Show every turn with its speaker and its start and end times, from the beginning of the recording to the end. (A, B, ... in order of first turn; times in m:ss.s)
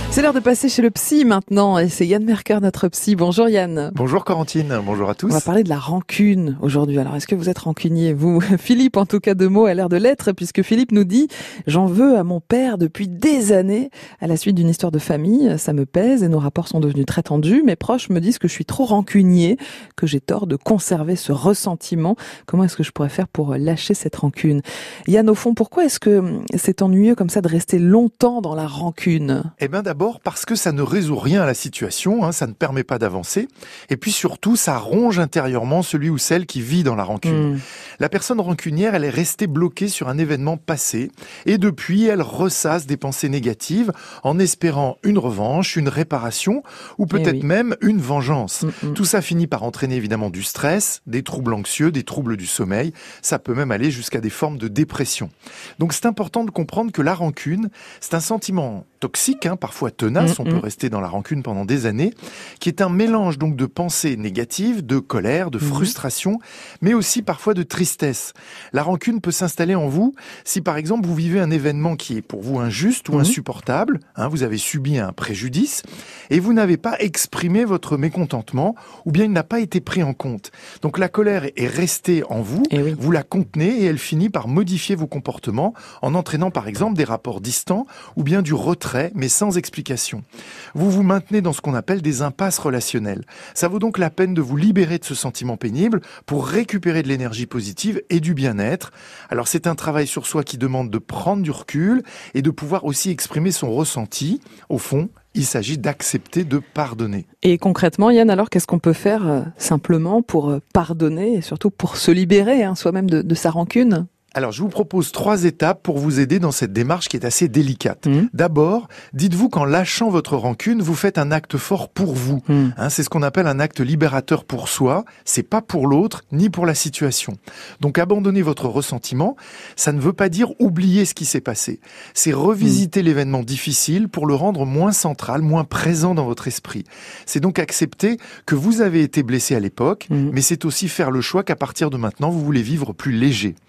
0:00.1-0:04.0 A
0:03.9-0:05.5 B
0:05.3-0:29.5 A
0:29.6-1:30.2 B
0:37.2-0:37.6 A
0:47.1-0:47.5 A
0:48.6-0:49.0 A
1:00.2-1:00.6 A
1:05.6-1:05.9 A
1:13.1-1:13.4 A
1:22.7-1:23.0 A
1:30.8-1:47.2 B
1:47.4-1:54.1 A
1:54.3-2:23.6 B
2:02.5-2:02.8 A
2:20.1-2:20.3 A